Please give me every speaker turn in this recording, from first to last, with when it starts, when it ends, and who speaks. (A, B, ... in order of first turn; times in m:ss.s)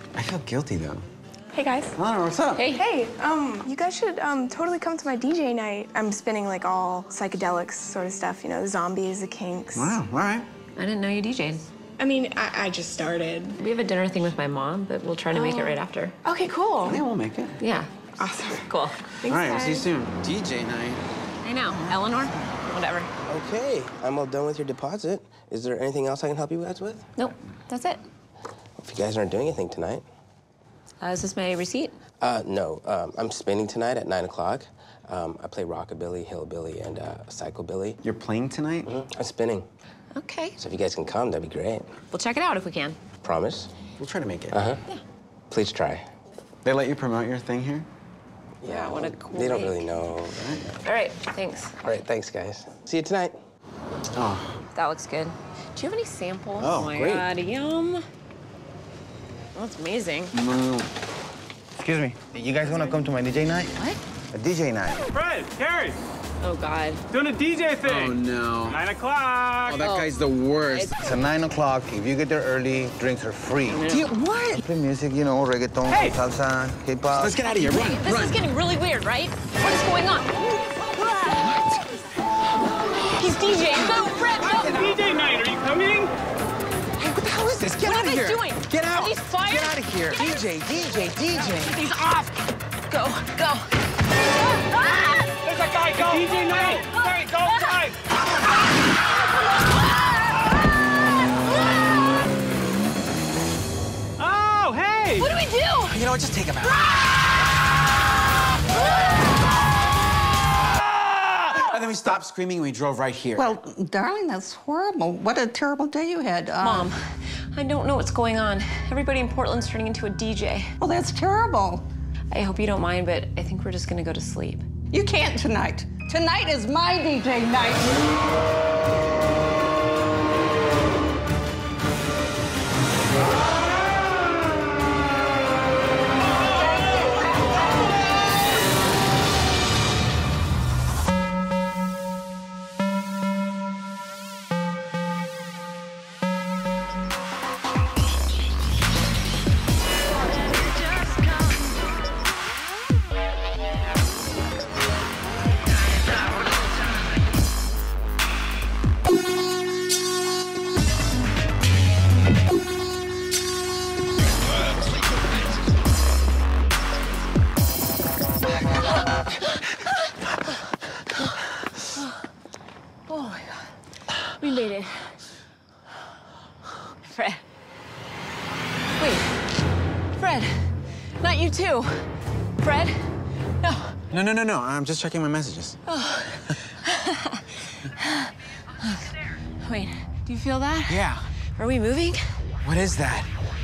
0:00.2-0:01.0 A
0:01.5-0:02.0 B
0:02.0-0:02.7 A
0:02.6-0:02.8 C
0:02.7-0:10.0 B
0:09.8-0:10.5 A
0:10.8-0:11.7 C
0:12.0-0:13.6 B
0:13.6-0:16.2 C
0:15.3-0:17.0 B
0:16.8-0:17.6 A
0:17.6-0:19.1 C
0:18.2-0:19.9 B
0:19.3-0:21.0 A
0:21.4-0:23.1 C
0:23.3-0:27.1 D
0:27.2-0:28.0 C
0:28.8-0:30.0 D
0:31.0-0:32.0 C
0:32.2-0:38.0 D
0:38.0-0:38.9 A
0:38.8-0:39.7 D
0:40.1-0:40.6 C
0:40.6-0:41.9 D
0:42.1-0:43.0 C
0:43.2-0:43.7 D
0:44.0-0:44.6 A
0:44.5-0:44.8 D
0:45.5-0:46.1 D
0:46.6-0:47.9 A
0:48.6-0:50.6 D
0:48.6-0:50.1 C
0:50.3-0:50.7 A
0:50.8-0:51.8 C
0:51.8-0:53.4 D
0:54.2-0:54.6 A
0:54.7-0:58.0 C
0:56.6-0:57.3 A
0:59.6-1:00.4 C
1:00.3-1:00.9 A
1:01.8-1:03.8 E
1:02.6-1:03.0 C
1:04.3-1:05.0 E
1:05.1-1:06.0 F
1:06.4-1:07.0 C
1:07.1-1:10.0 F
1:07.8-1:08.8 A
1:09.7-1:10.9 A
1:09.8-1:10.1 C
1:10.7-1:11.0 C
1:11.0-1:13.8 E
1:13.7-1:14.2 C
1:13.9-1:14.3 A
1:14.2-1:14.5 G
1:14.5-1:17.4 E
1:15.9-1:16.2 F
1:17.1-1:18.4 A
1:17.6-1:20.4 C
1:21.1-1:21.6 C
1:23.0-1:25.0 C
1:24.7-1:26.1 F
1:27.0-1:30.6 C
1:27.6-1:28.4 A
1:29.7-1:31.7 E
1:29.8-1:30.2 A
1:31.3-1:33.7 C
1:34.7-1:37.8 C
1:35.5-1:38.0 F
1:44.2-1:45.3 F
1:45.2-1:46.0 C
1:45.9-1:46.9 A
1:51.1-1:53.5 A
1:53.4-1:56.9 G
1:56.6-1:57.0 C
1:57.5-2:00.7 C
2:00.8-2:01.8 G
2:02.3-2:04.7 C
2:04.9-2:08.1 G
2:53.1-2:53.7 C
2:54.4-2:55.2 C
2:57.1-2:57.4 C
2:59.0-2:59.3 C
3:00.2-3:03.1 C
3:03.6-3:04.0 C
3:04.1-3:05.8 A
3:05.9-3:09.1 C
3:09.6-3:12.4 C
3:10.9-3:11.3 A
3:12.6-3:13.3 A